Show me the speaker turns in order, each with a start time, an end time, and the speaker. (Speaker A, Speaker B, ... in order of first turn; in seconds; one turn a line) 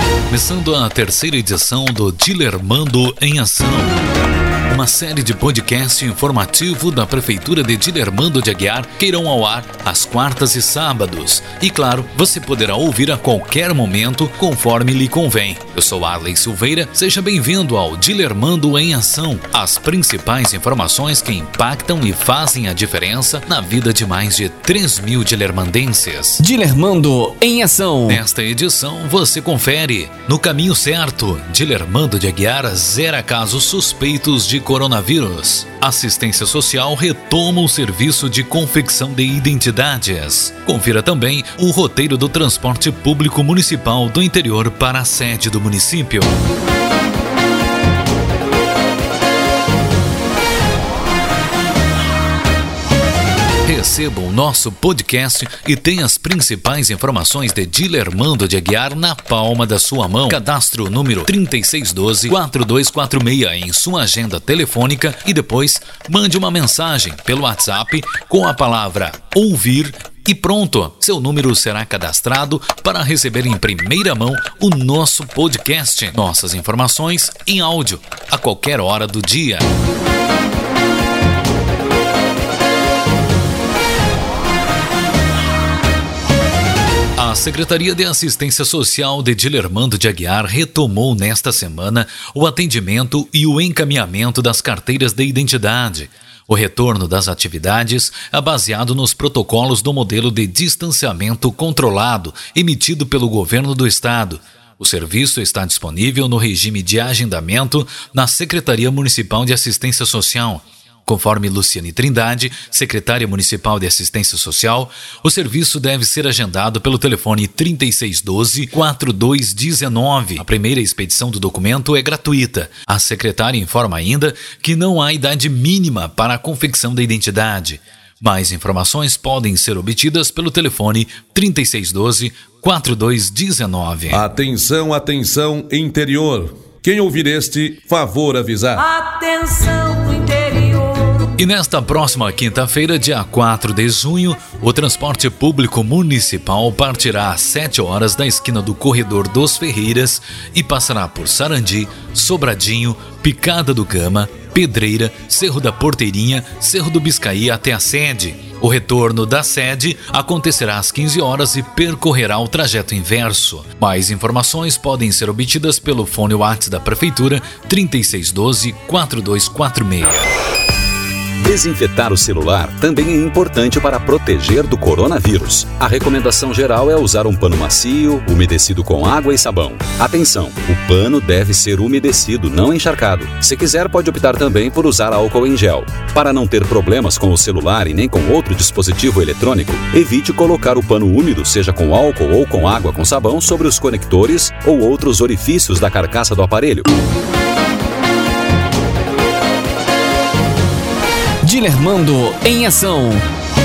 Speaker A: 0.3-4.1
Speaker A: 4.7-26.4
Speaker B: 26.4-28.2
Speaker A: 28.1-46.4
Speaker A: 53.6-79.7
Speaker A: 87.2-134.2
Speaker C: 134.1-138.8
Speaker D: 138.8-141.3
Speaker A: 141.4-170.3
Speaker E: 171.4-196.9
Speaker B: 201.4-203.2